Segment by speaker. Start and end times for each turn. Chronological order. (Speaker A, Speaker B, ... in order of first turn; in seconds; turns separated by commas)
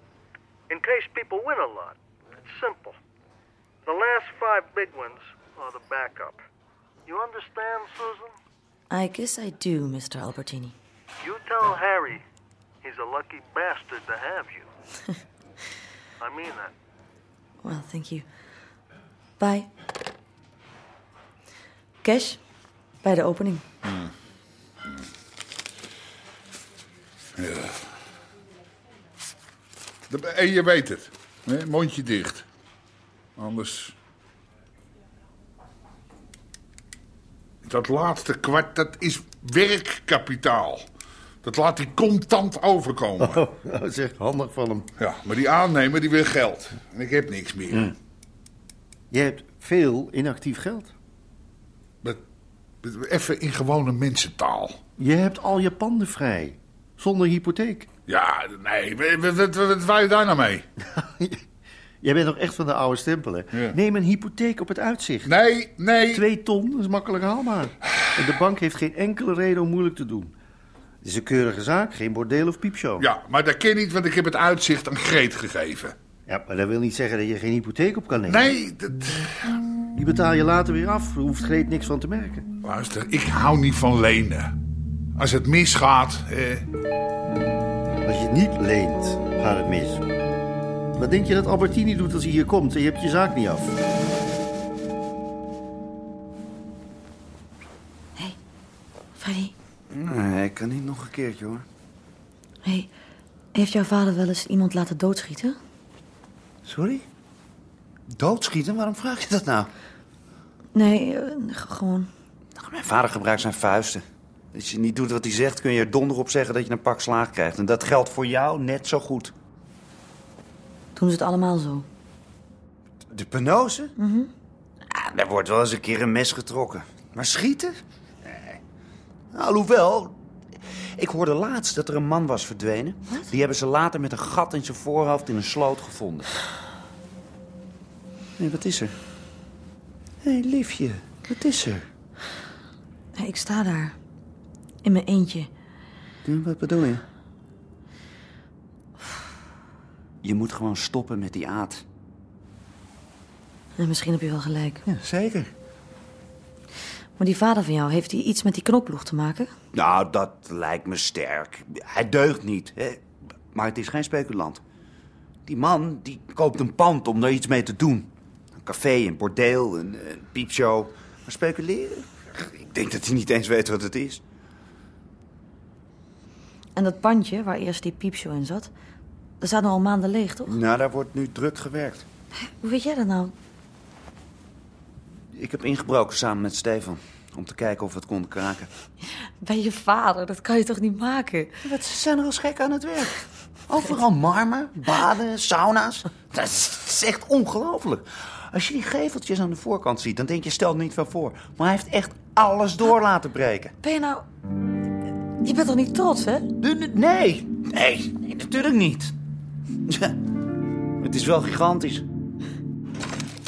Speaker A: 0.7-3.0, Speaker A: 3.9-6.4, Speaker A: 7.1-8.3, Speaker B: 8.9-10.7, Speaker A: 11.2-12.2, Speaker A: 12.8-14.7, Speaker A: 16.2-16.7, Speaker B: 17.6-18.2, Speaker B: 19.4-19.7, Speaker B: 22.0-22.4, Speaker B: 23.0-23.6, Speaker C: 27.4-27.7, Speaker C: 30.1-32.5, Speaker C: 33.4-33.9, Speaker C: 37.6-40.9, Speaker C: 41.4-43.4, Speaker D: 43.2-44.9, Speaker C: 45.0-47.9, Speaker D: 49.1-50.9, Speaker C: 52.8-54.8, Speaker D: 55.0-57.9, Speaker C: 58.1-60.6, Speaker D: 61.0-61.4, Speaker D: 62.0-65.3, Speaker C: 65.2-66.3, Speaker D: 66.1-70.3, Speaker D: 71.0-73.0, Speaker C: 73.0-75.9, Speaker D: 76.3-78.5, Speaker C: 78.3-79.3, Speaker D: 79.9-82.4, Speaker C: 82.6-84.5, Speaker C: 85.2-86.6, Speaker D: 88.0-90.0, Speaker D: 91.0-93.7, Speaker B: 99.2-99.5, Speaker E: 99.9-101.7, Speaker B: 102.6-102.9, Speaker B: 103.5-105.6, Speaker E: 106.6-107.0, Speaker E: 108.1-109.7, Speaker B: 110.7-112.1, Speaker E: 112.6-114.0, Speaker E: 114.5-119.3, Speaker B: 121.0-121.8, Speaker E: 123.1-123.9, Speaker B: 124.0-124.3, Speaker E: 124.9-127.8, Speaker E: 129.3-130.2, Speaker E: 131.0-136.3, Speaker E: 138.4-138.9, Speaker E: 140.2-141.9, Speaker B: 143.2-143.9, Speaker B: 144.8-145.5, Speaker E: 146.2-147.0, Speaker E: 150.2-151.8, Speaker B: 153.8-154.8, Speaker E: 154.8-155.5, Speaker B: 157.2-159.5, Speaker E: 159.7-164.6, Speaker E: 165.4-174.2, Speaker B: 176.7-178.7, Speaker B: 179.4-180.5, Speaker E: 180.4-182.0, Speaker B: 182.4-183.3, Speaker E: 185.3-188.7, Speaker B: 189.4-191.6, Speaker E: 191.6-193.2, Speaker E: 193.7-203.7, Speaker B: 203.8-204.2, Speaker B: 205.4-206.5, Speaker E: 206.6-209.1, Speaker E: 209.9-210.1, Speaker E: 211.0-212.1